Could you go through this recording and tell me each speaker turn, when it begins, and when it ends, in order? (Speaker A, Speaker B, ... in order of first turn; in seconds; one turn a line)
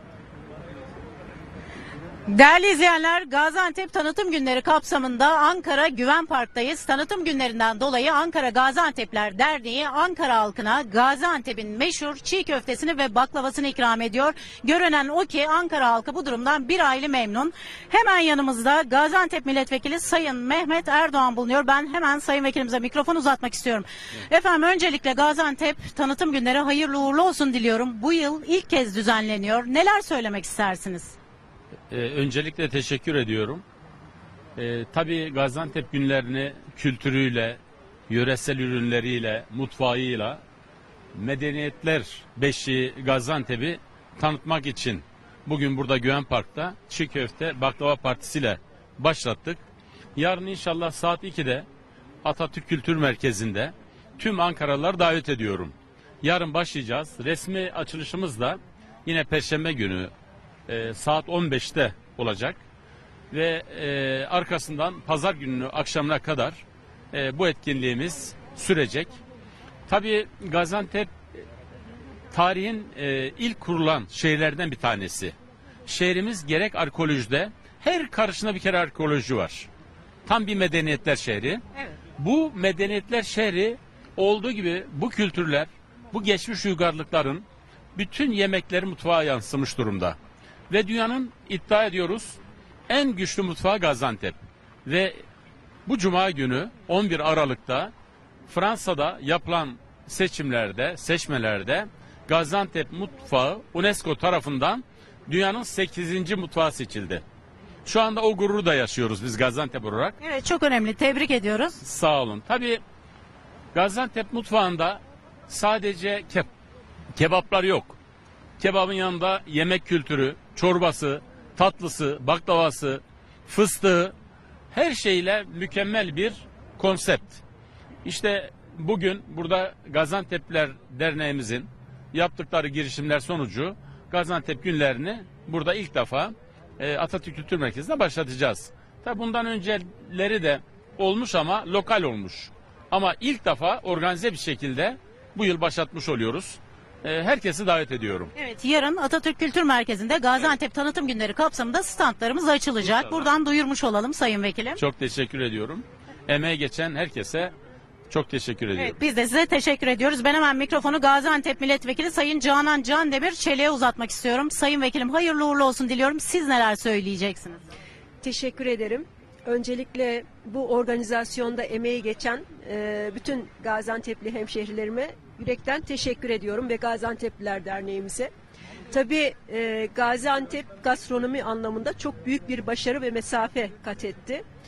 Speaker A: 2.3-31.1
Speaker B: 31.9-33.6
Speaker B: 34.5-40.4
Speaker B: 41.1-49.6
Speaker B: 50.1-51.6
Speaker B: 52.2-60.1
Speaker B: 60.7-62.6
Speaker B: 63.3-69.2
Speaker B: 69.9-71.1
Speaker B: 72.3-79.7
Speaker B: 80.2-81.6
Speaker B: 82.2-90.2
Speaker B: 90.7-95.2
Speaker B: 95.8-97.9
Speaker B: 98.5-107.2
Speaker B: 107.8-110.2
Speaker A: 110.2-111.8
Speaker B: 111.8-112.8
Speaker B: 113.7-116.5
Speaker B: 117.1-118.0
Speaker B: 118.6-124.1
Speaker B: 124.7-127.4
Speaker B: 128.0-148.3
Speaker A: 148.3-154.8
Speaker B: 154.8-157.5
Speaker B: 158.1-158.9
Speaker A: 158.8-167.6
Speaker C: 168.2-178.3
Speaker C: 178.9-184.4